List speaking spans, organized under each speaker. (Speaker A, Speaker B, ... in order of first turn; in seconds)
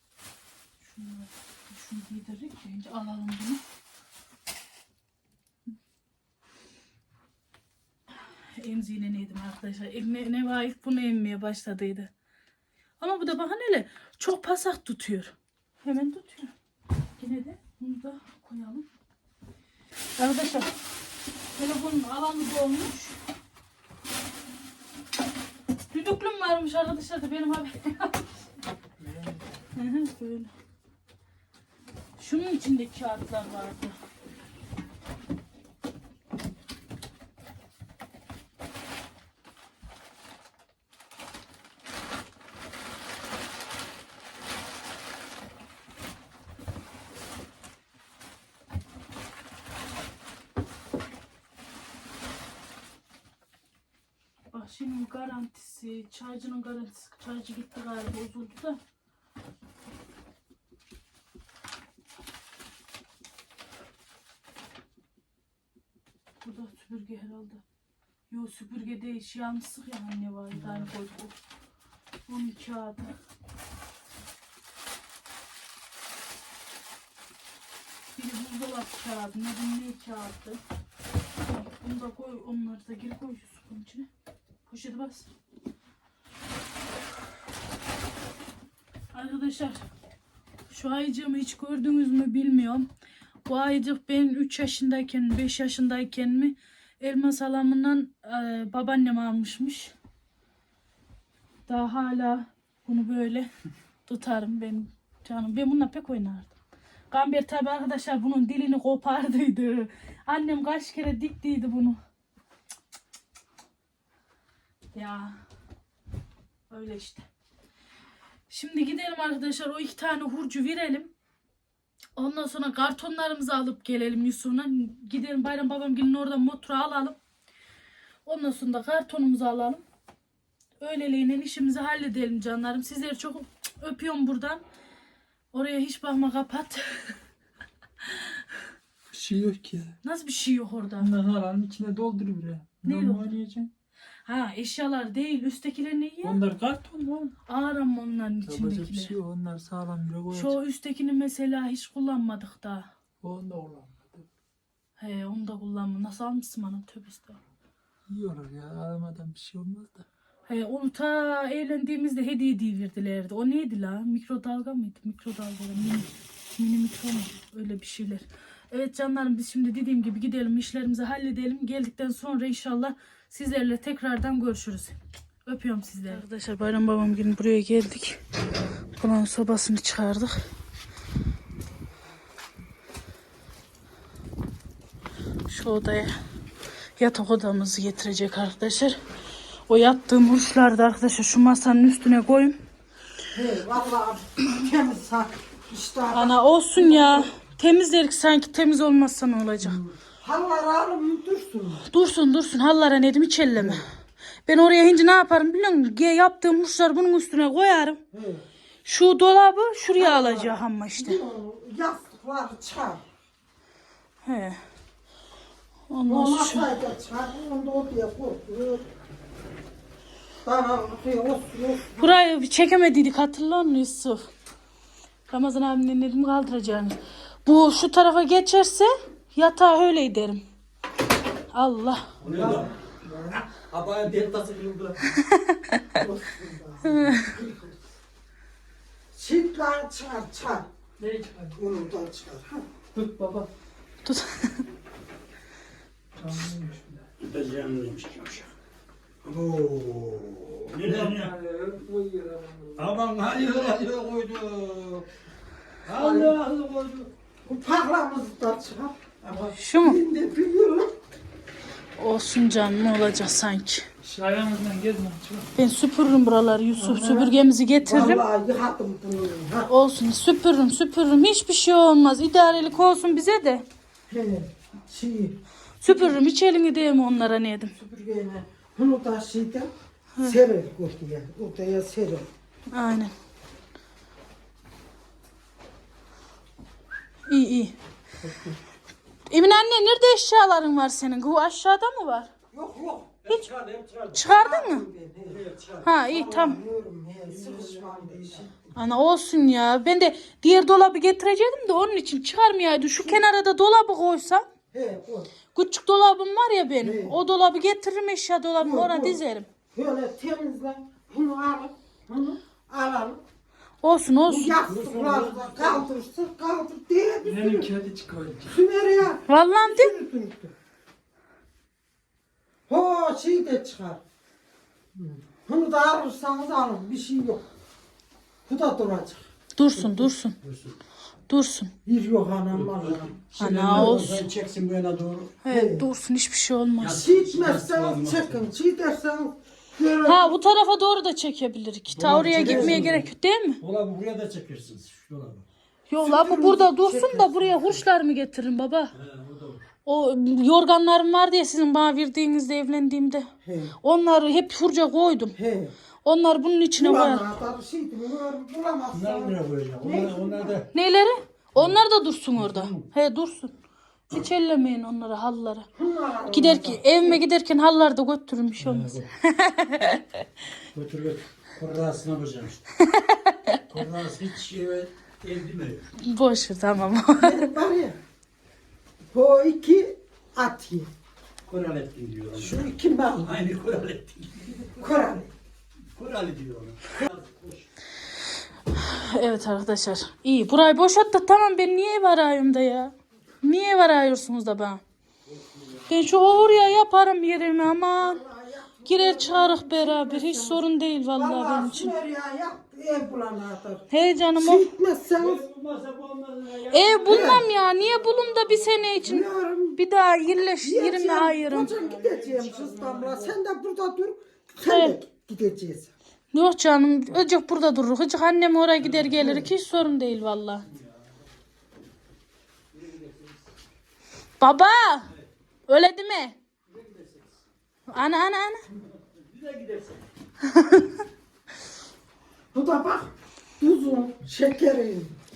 Speaker A: 0.8-3.6, 8.1-12.1, 13.0-16.5, 17.2-18.9, 20.2-20.7, 21.6-23.2, 25.9-28.2, 29.7-30.5, 32.2-34.0, 54.5-58.8, 66.4-67.6, 68.3-71.3, 72.3-73.1, 78.2-80.6, 81.4-84.1, 84.7-85.3, 89.1-89.8, 90.7-92.9, 93.4-99.9, 101.7-103.5, 104.0-106.5, 107.1-112.0, 114.9-115.4, 116.7-117.2, 118.5-121.1, 122.2-127.2, 128.2-129.8, 130.8-134.6, 135.5-137.2, 140.0-141.1, 142.8-143.3, 144.2-146.4, 147.5-149.1, 150.3-152.9, 155.0-157.4, 160.4-178.2, 178.9-180.4, 185.5-186.1, 187.0-189.0, 189.7-192.6, 196.1-199.8, 201.9-203.9, 204.5-208.0, 208.8-211.2, 214.2-214.6, 215.9-216.7, 222.0-224.3, 225.3-230.4, 231.5-232.1, 235.3-235.8, 244.0-244.6, 259.5-260.0, 262.0-263.9, 265.6-268.2, 269.7-273.6, 275.8-277.7, 282.7-283.1, 287.3-287.7, 289.3-292.3, 294.1-294.9, 295.8-296.6, 298.7-304.4, 305.5-309.5, 313.8-314.6, 319.3-319.9, 329.6-330.4, 331.3-331.7, 333.4-334.3, 335.4-337.1, 340.1-343.6, 345.9-348.9, 349.9-353.3, 353.8-355.4, 356.0-357.2, 360.7-363.5, 364.1-365.7, 366.3-370.0, 372.9-373.6, 376.0-377.5, 388.7-394.8, 395.9-398.2, 398.9-401.9, 403.9-404.7, 406.7-411.8, 414.6-415.0, 416.3-420.6, 424.4-425.1, 425.7-426.4, 427.9-428.6, 430.5-430.9
Speaker B: 29.0-29.7, 70.5-70.9, 139.1-139.9, 141.0-143.7, 146.2-147.3, 148.4-150.6, 153.2-154.3, 158.1-160.1, 241.0-241.6, 242.9-243.5, 246.2-247.1, 250.8-252.9, 264.0-265.5, 317.2-318.6
Speaker C: 193.3-197.3, 199.6-201.8, 203.5-203.9, 208.1-208.4, 209.9-213.0, 216.1-218.8, 220.4-222.2, 232.2-233.4, 235.9-237.8, 239.1-240.7, 241.5-242.7, 255.9-256.4, 257.4-260.9, 266.7-269.7, 274.1-276.2, 277.7-282.3, 288.2-288.6, 292.5-293.2, 294.2-295.4, 296.1-298.7, 302.9-303.2, 304.7-305.3, 306.8-307.2, 308.6-309.2, 309.7-313.2, 314.3-317.7, 318.5-320.5, 322.7-324.0, 324.9-327.4, 328.4-330.1, 331.8-334.0, 335.4-335.9, 336.8-340.4, 342.0-342.9, 346.0-347.9, 353.4-353.8, 355.3-355.7, 356.8-360.5, 365.7-367.2, 377.1-378.0, 379.1-380.9, 382.3-383.4, 384.7-385.3, 398.0-405.4, 407.1-407.4, 409.0-409.8, 410.6-415.9, 419.1-419.5, 432.5-435.2
Speaker D: 232.2-232.7, 233.6-235.2, 247.2-248.5, 249.2-251.3, 252.8-255.1, 255.8-257.1, 293.2-294.2, 295.3-295.9, 297.3-298.4, 314.6-315.9, 330.4-330.8, 332.5-335.4, 336.8-338.5, 341.9-343.1, 343.6-345.4, 348.9-349.6, 358.9-360.7, 362.4-362.9, 368.6-369.1, 370.7-372.6, 373.7-375.9, 381.4-382.7, 383.2-384.8, 385.9-387.7, 395.2-396.5, 405.1-409.0, 411.5-413.4, 420.7-421.1, 422.7-423.5, 426.6-427.4, 428.9-430.1